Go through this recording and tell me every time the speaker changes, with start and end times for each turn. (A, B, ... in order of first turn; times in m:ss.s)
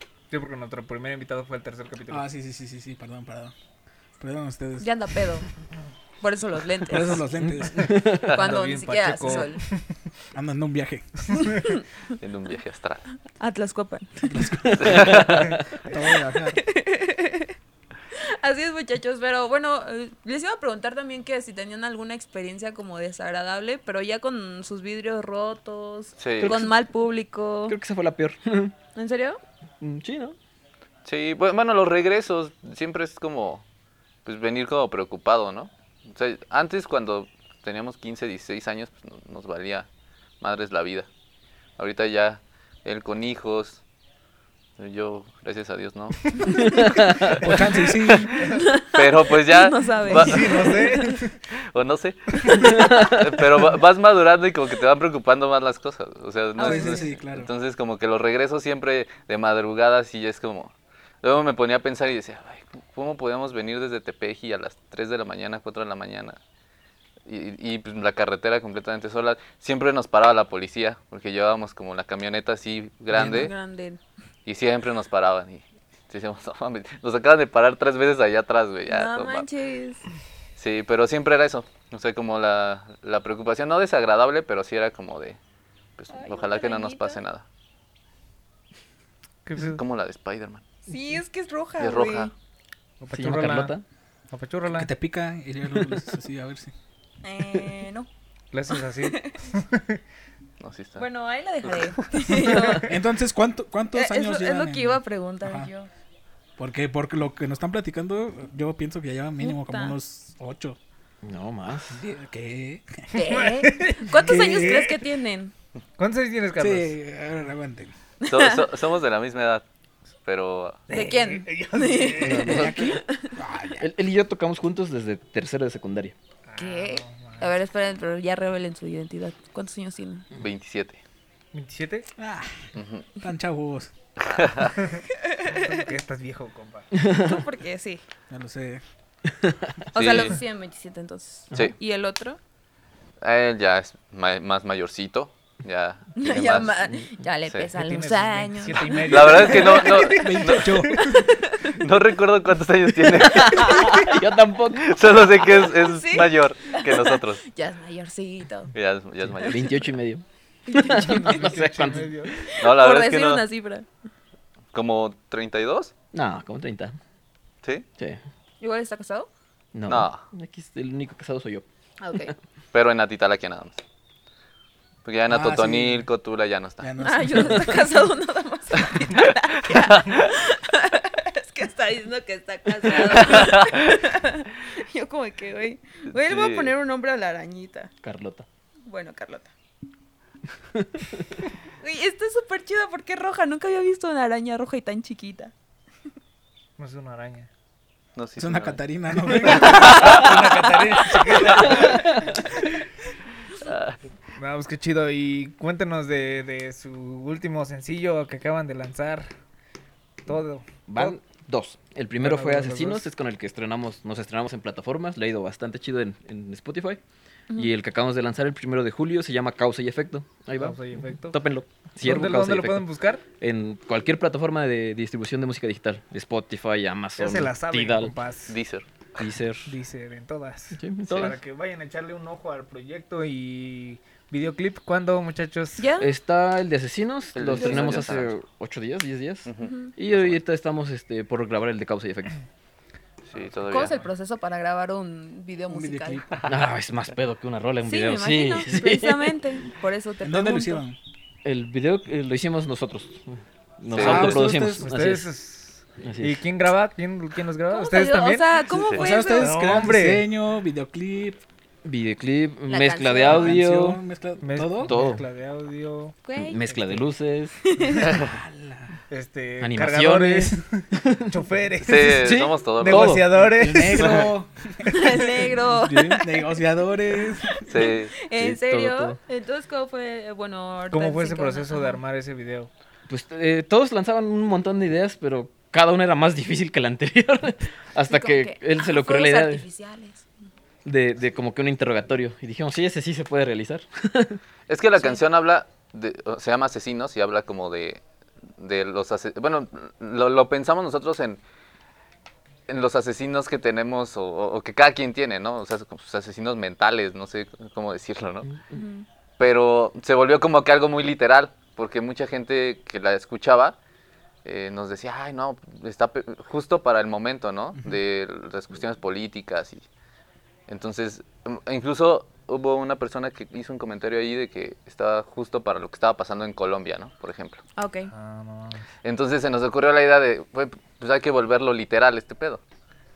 0:00.3-0:02.2 A
0:02.1-0:03.5 B
0:04.2-0:05.2 B
0:04.8-0:05.5 C
0:06.2-0:07.2 C
0:06.8-0:07.9 B
0:07.4-0:08.2 D
0:07.7-0:09.9 A
0:08.3-0:09.6 C
0:10.3-0:11.3 B
0:11.3-0:11.8 C
0:12.2-0:13.0 E
0:13.4-0:14.3 C
0:14.2-0:15.2 B
0:14.6-0:15.6 D
0:14.8-0:15.6 E
0:15.8-0:16.6 B
0:16.5-0:17.5 C
0:18.1-0:27.8 C
0:26.2-0:26.6 E
0:26.4-0:26.7 D
0:27.7-0:28.7 D
0:29.0-0:29.4 C
0:29.8-0:30.4 D
0:31.0-0:33.6 E
0:34.2-0:39.9 E
0:40.4-0:41.1 E
0:41.8-0:43.8 E
0:44.8-0:50.9 E
0:46.8-0:47.4 D
0:47.4-0:48.3 B
0:48.5-0:51.0 C
0:50.0-0:51.4 A
0:51.5-1:06.4 E
0:52.4-0:52.9 A
0:52.6-0:53.2 D
0:56.6-0:57.1 C
0:56.6-0:57.5 B
1:07.3-1:13.5 E
1:13.1-1:14.0 C
1:14.5-1:19.5 E
1:18.9-1:20.0 C
1:20.6-1:25.4 E
1:26.0-1:27.4 E
1:26.1-1:27.2 C
1:29.4-1:29.8 A
1:29.7-1:30.6 E
1:30.9-1:32.3 C
1:31.8-1:32.3 E
1:33.0-1:33.8 A
1:33.1-1:33.8 D
1:34.3-1:34.9 A
1:34.7-1:36.7 B
1:37.2-1:38.1 C
1:38.5-1:40.0 A
1:38.8-1:39.4 C
1:40.6-1:41.0 E
1:41.0-1:42.9 C
1:42.0-1:42.9 A
1:42.8-1:45.7 B
1:43.9-1:45.9 C
1:46.6-1:50.8 B
1:49.4-1:50.0 C
1:51.2-1:52.0 D
1:51.9-1:53.1 B
1:53.1-1:55.5 C
1:53.2-1:54.1 A
1:54.1-1:55.0 B
1:56.0-1:56.9 A
1:56.6-1:57.9 B
1:58.2-1:58.6 C
1:58.3-1:59.6 E
2:00.2-2:00.8 E
2:00.9-2:02.6 A
2:00.9-2:03.4 C
2:02.2-2:03.0 D
2:02.4-2:03.9 B
2:03.8-2:06.2 D
2:06.5-2:07.5 A
2:06.6-2:10.3 C
2:10.4-2:11.0 E
2:11.5-2:12.1 A
2:12.2-2:13.9 B
2:12.8-2:13.1 E
2:14.2-2:14.8 E
2:14.8-2:16.9 A
2:15.1-2:15.8 C
2:17.0-2:17.4 D
2:17.1-2:18.0 C
2:18.3-2:18.8 B
2:19.4-2:19.8 D
2:19.9-2:22.4 C
2:20.0-2:20.4 E
2:23.2-2:26.8 E
2:26.2-2:29.8 C
2:27.7-2:31.2 A
2:29.1-2:30.7 E
2:29.9-2:31.1 B
2:31.0-2:31.7 C
2:31.6-2:33.9 E
2:33.3-2:34.9 D
2:33.3-2:34.1 C
2:34.8-2:37.4 E
2:35.5-2:38.7 C
2:38.7-2:39.7 E
2:39.4-2:42.2 D
2:40.7-2:41.5 C
2:40.8-2:42.5 A
2:42.4-2:43.9 C
2:42.5-2:43.4 E
2:44.7-2:45.9 E
2:46.1-2:47.0 D
2:48.6-2:49.3 C
2:49.7-2:51.6 D
2:49.9-2:50.2 E
2:52.0-2:52.4 C
2:52.7-2:53.8 E
2:55.0-2:56.9 E
2:55.3-2:56.1 B
2:56.8-2:57.9 B
2:57.0-3:07.9 C
2:59.2-3:00.3 E
3:03.2-3:03.8 E
3:06.1-3:06.7 E
3:08.0-3:08.5 D
3:08.8-3:09.5 C
3:10.8-3:11.0 D
3:11.8-3:15.5 C
3:16.8-3:17.5 A
3:18.2-3:20.2 E
3:18.4-3:20.1 B
3:19.4-3:22.4 A
3:21.4-3:21.8 E
3:23.6-3:24.0 E
3:24.4-3:29.3 A
3:30.3-3:31.2 A
3:30.9-3:37.0 D
3:32.2-3:33.1 A
3:37.6-3:42.9 D
3:40.6-3:41.4 A
3:42.0-3:43.2 A
3:43.4-3:48.1 D
3:47.2-3:48.6 A
3:48.5-3:48.9 E
3:49.2-3:49.7 D
3:49.7-3:55.9 A
3:50.8-3:51.4 D
3:55.8-3:56.1 C
3:56.0-4:02.4 D
3:57.4-3:58.3 E
3:57.6-3:58.1 C
3:59.5-4:00.4 E
3:59.6-3:59.9 C
4:03.3-4:04.0 E
4:03.4-4:04.1 A
4:03.7-4:06.2 C
4:05.7-4:06.5 B
4:06.5-4:09.4 D
4:07.9-4:10.8 C
4:10.2-4:11.0 B
4:11.4-4:15.3 D
4:13.9-4:14.5 E
4:14.0-4:14.9 B
4:14.1-4:18.6 A
4:16.0-4:16.4 D
4:17.7-4:19.9 C
4:18.7-4:19.0 E
4:18.9-4:21.4 B
4:19.4-4:20.3 A
4:21.8-4:24.0 D
4:22.7-4:23.6 C
4:23.2-4:25.0 B
4:24.4-4:26.2 A
4:24.8-4:25.2 D
4:26.2-4:26.7 C
4:26.4-4:27.6 D
4:26.7-4:27.0 A
4:27.6-4:28.2 C
4:28.0-4:29.0 B
4:28.1-4:28.3 E
4:29.1-4:34.2 A
4:29.6-4:31.3 D
4:31.8-4:33.2 E
4:32.1-4:33.4 D
4:33.6-4:37.6 B
4:33.9-4:34.3 E
4:34.9-4:36.6 C
4:34.9-4:35.4 A
4:37.4-4:42.0 C
4:37.7-4:38.1 E
4:38.4-4:39.2 D
4:40.9-4:42.7 A
4:43.1-4:49.6 D
4:48.1-4:50.3 C
4:50.8-4:54.4 D
4:54.7-4:58.0 E
4:58.6-5:01.4 E
5:02.7-5:08.5 E
5:08.5-5:08.8 D
5:08.7-5:09.1 C
5:09.4-5:13.8 E
5:14.4-5:19.8 E
5:20.7-5:27.6 E
5:27.8-5:28.1 C
5:28.1-5:28.8 A
5:29.0-5:32.6 E